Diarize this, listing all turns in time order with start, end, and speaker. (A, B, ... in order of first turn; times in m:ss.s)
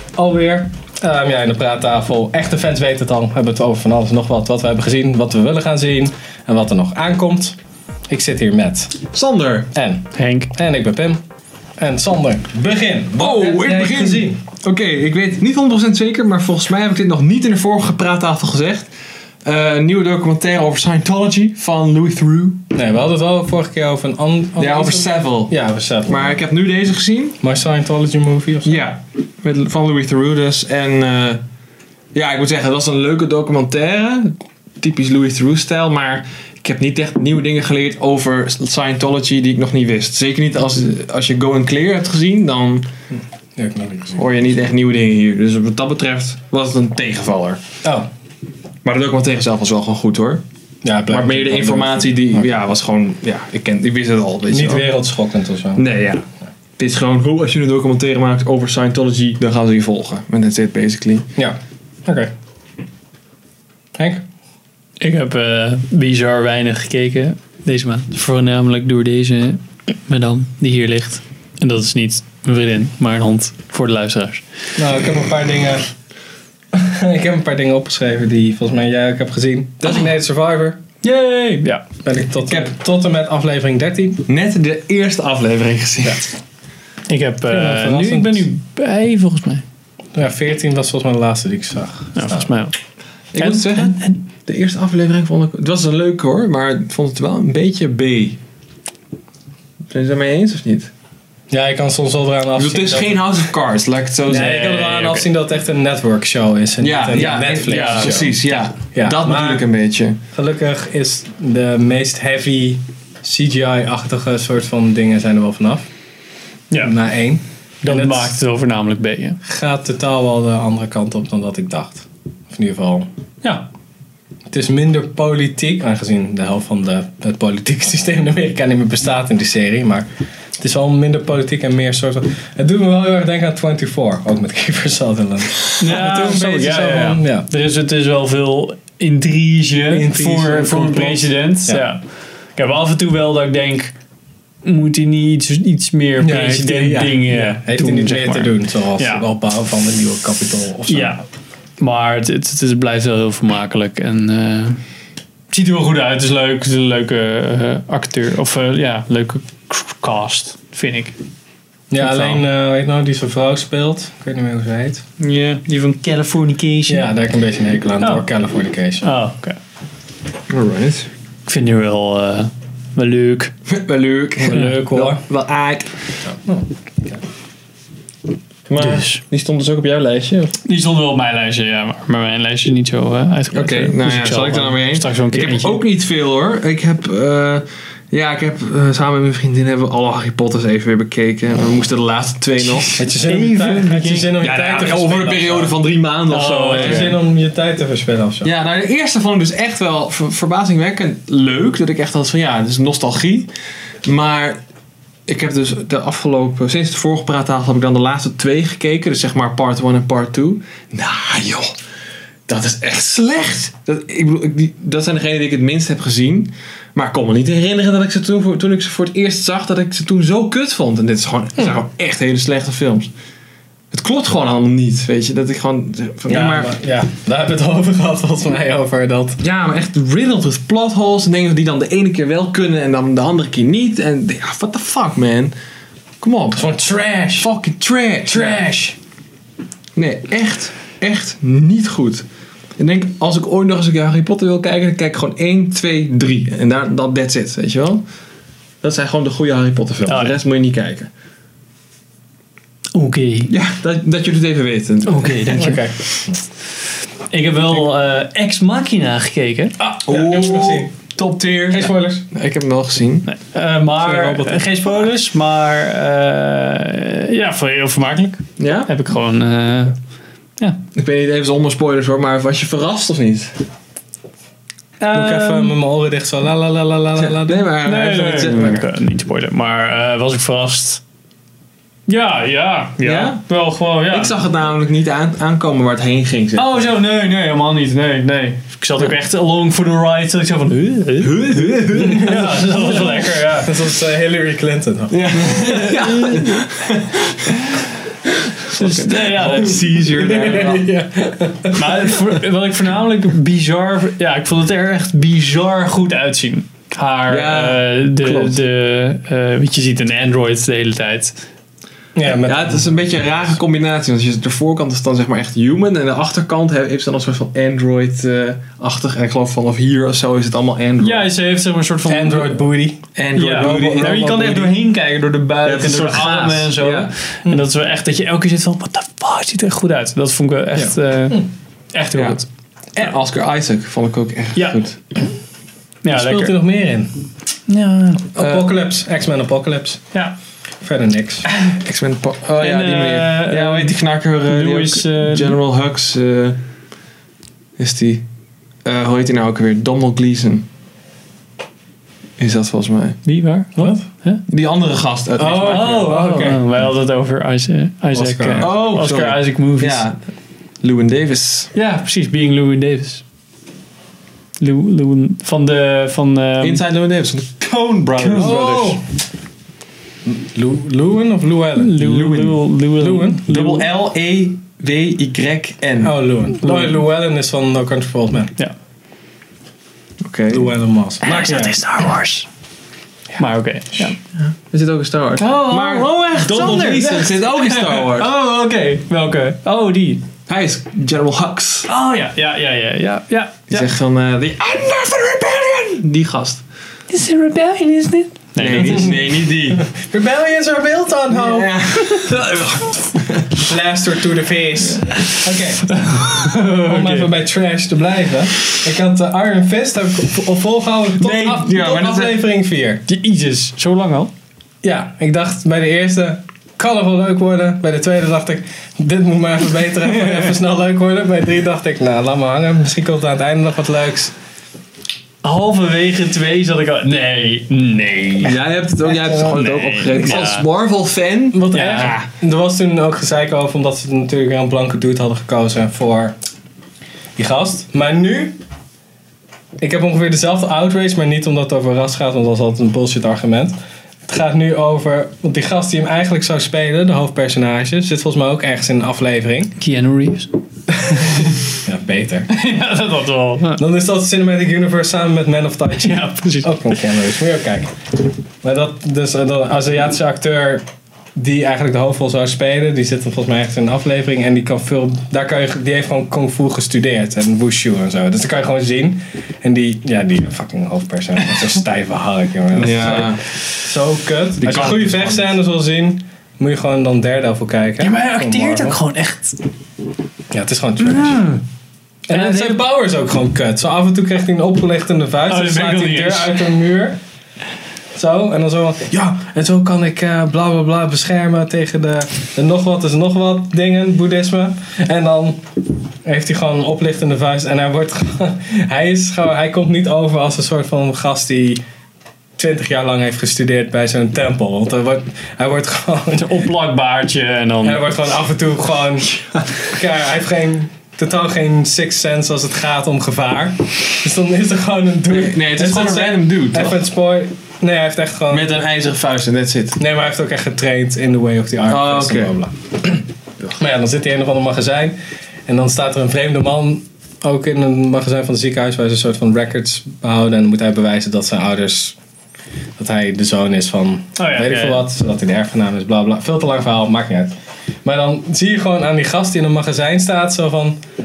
0:00.2-0:07.6 A
0:08.1-0:09.0 A
0:09.1-0:09.7 B
0:09.7-0:11.2 A
0:10.2-0:10.5 C
0:11.8-0:14.4 A
0:13.2-0:18.9 B
0:19.4-0:22.6 B
0:22.7-0:26.4 A
0:24.6-0:27.4 B
0:27.4-0:28.8 A
0:28.6-0:31.4 B
0:32.1-0:42.9 B
0:43.6-0:44.2 A
0:44.2-0:47.6 B
0:48.8-0:50.4 B
0:50.8-0:52.3 A
0:51.1-0:54.9 B
0:54.5-0:55.8 A
0:55.8-0:56.2 B
0:56.8-1:01.3 B
1:01.4-1:02.3 A
1:04.0-1:04.2 A
1:05.0-1:14.4 C
1:14.8-1:15.9 A
1:16.7-1:20.8 A
1:21.0-1:21.8 C
1:22.0-1:24.2 A
1:22.5-1:22.7 B
1:24.3-1:26.3 B
1:27.1-1:29.6 C
1:27.5-1:28.5 A
1:30.2-1:32.5 A
1:32.2-1:32.8 C
1:33.3-1:38.4 B
1:33.4-1:34.2 C
1:39.9-1:40.9 B
1:41.5-1:43.2 A
1:42.6-1:44.7 B
1:44.3-1:48.4 A
1:44.3-1:45.3 C
1:46.8-1:50.2 B
1:47.2-1:48.6 C
1:48.9-1:49.6 A
1:50.3-1:55.9 A
1:56.8-1:58.3 A
1:57.8-1:59.4 C
1:59.4-2:03.1 A
2:04.5-2:10.1 A
2:10.6-2:17.5 A
2:15.8-2:22.0 C
2:19.9-2:21.8 A
2:22.6-2:23.9 C
2:24.6-2:29.2 C
2:26.2-2:31.2 A
2:30.9-2:31.2 C
2:31.8-2:34.8 C
2:35.5-2:41.2 C
2:41.9-2:45.0 A
2:42.0-2:42.4 C
2:45.2-2:47.1 C
2:46.9-2:49.1 A
2:48.0-2:48.3 C
2:49.0-2:49.6 C
2:50.5-2:51.1 B
2:51.5-2:53.5 C
2:53.7-2:55.9 B
2:54.4-2:55.2 A
2:56.3-2:57.2 A
2:58.7-3:00.6 B
2:58.8-2:59.2 C
3:00.6-3:05.8 C
3:03.5-3:13.0 B
3:12.6-3:14.4 C
3:13.0-3:15.7 A
3:14.4-3:17.2 B
3:16.3-3:17.2 C
3:16.7-3:18.5 A
3:18.4-3:23.5 B
3:24.0-3:24.6 B
3:25.3-3:31.7 B
3:32.5-3:43.1 B
3:43.9-3:46.7 B
3:46.3-3:49.4 A
3:49.4-3:55.5 B
3:56.2-3:56.7 B
3:56.6-3:57.5 A
3:57.4-3:58.6 B
3:58.3-3:59.0 A
4:00.0-4:02.2 B
4:02.8-4:08.0 B
4:08.8-4:11.1 B
4:10.1-4:10.4 C
4:12.9-4:13.5 C
4:13.5-4:15.8 B
4:15.1-4:15.8 C
4:15.5-4:16.4 A
4:17.3-4:19.7 C
4:19.8-4:20.9 A
4:20.0-4:23.3 B
4:21.7-4:22.3 A
4:23.3-4:30.0 C
4:24.0-4:25.0 B
4:28.6-4:28.9 B
4:31.0-4:33.6 B
4:35.0-4:35.8 C
4:35.1-4:37.7 A
4:37.2-4:38.8 B
4:37.8-4:41.0 C
4:42.1-4:44.3 C
4:43.0-4:43.4 B
4:44.0-4:46.8 B
4:46.6-4:53.7 C
4:51.2-4:52.4 B
4:52.0-4:55.8 A
4:55.1-4:57.6 B
4:55.4-4:56.6 C
4:58.4-5:00.9 B
4:58.7-5:00.2 C
5:00.2-5:01.9 A
5:01.7-5:11.4 C
5:07.3-5:08.6 B
5:12.2-5:13.0 A
5:12.4-5:21.3 B
5:21.0-5:22.7 C
5:22.1-5:24.7 A
5:23.2-5:24.7 B
5:23.4-5:32.5 C
5:25.6-5:27.1 B
5:30.8-5:31.4 A
5:32.1-5:32.4 B
5:33.0-5:35.0 B
5:36.0-5:36.6 C
5:36.1-5:37.1 A
5:37.7-5:38.3 C
5:38.4-5:40.0 A
5:38.4-5:38.7 B
5:40.8-5:41.5 A
5:41.5-5:41.8 C
5:41.8-5:46.6 B
5:42.6-5:45.6 C
5:47.8-5:48.2 B
5:48.8-5:50.7 B
5:52.4-5:53.2 B
5:53.3-5:54.4 C
5:53.8-5:54.1 A
5:54.5-5:56.2 B
5:55.4-5:56.6 A
5:55.6-6:00.0 C
5:58.1-5:58.7 A
5:58.6-6:00.2 B
6:00.8-6:01.7 B
6:01.8-6:03.2 C
6:04.6-6:06.8 C
6:06.6-6:09.0 B
6:08.2-6:09.0 A
6:10.3-6:12.0 A
6:11.8-6:13.9 C
6:12.0-6:12.6 B
6:13.0-6:13.4 A
6:13.5-6:16.1 B
6:16.0-6:18.5 A
6:20.2-6:20.7 B
6:20.5-6:21.8 A
6:21.2-6:22.5 C
6:23.4-6:24.2 C
6:24.4-6:28.3 B
6:25.4-6:30.2 C
6:30.5-6:31.9 B
6:31.9-6:33.9 C
6:33.7-6:36.6 B
6:37.1-6:39.2 C
6:38.6-6:39.9 B
6:39.7-6:41.8 A
6:41.3-6:43.6 B
6:42.3-6:42.8 C
6:43.5-6:53.0 A
6:45.9-6:47.3 C
6:51.2-6:51.7 C
6:51.6-6:52.4 B
6:53.1-6:54.3 C
6:54.8-7:04.3 A
7:00.0-7:00.5 C
7:05.4-7:08.6 C
7:08.4-7:12.3 B
7:09.2-7:09.5 A
7:09.4-7:10.7 C
7:11.5-7:16.4 A
7:11.7-7:12.1 C
7:17.4-7:18.6 A
7:19.8-7:23.7 A
7:24.3-7:29.7 A
7:29.8-7:30.5 C
7:31.0-7:32.5 A
7:31.1-7:31.6 C
7:32.5-7:33.8 C
7:33.8-7:37.9 A
7:36.0-7:37.2 C
7:38.6-7:40.8 A
7:41.4-7:59.0 A
7:52.8-7:53.4 B
7:54.6-7:55.5 B
7:58.0-7:59.6 C
8:00.5-8:01.5 A
8:01.0-8:01.6 C
8:02.3-8:07.2 A
8:02.3-8:02.8 C
8:05.5-8:06.6 C
8:08.2-8:15.6 A
8:16.2-8:21.8 A
8:22.6-8:26.6 A
8:26.4-8:28.2 C
8:27.8-8:38.7 A
8:35.3-8:37.0 B
8:38.5-8:40.0 B
8:40.0-8:43.2 A
8:41.9-8:42.5 B
8:43.8-8:45.2 A
8:45.7-8:52.2 A
8:53.0-9:01.0 A
8:54.4-8:55.0 C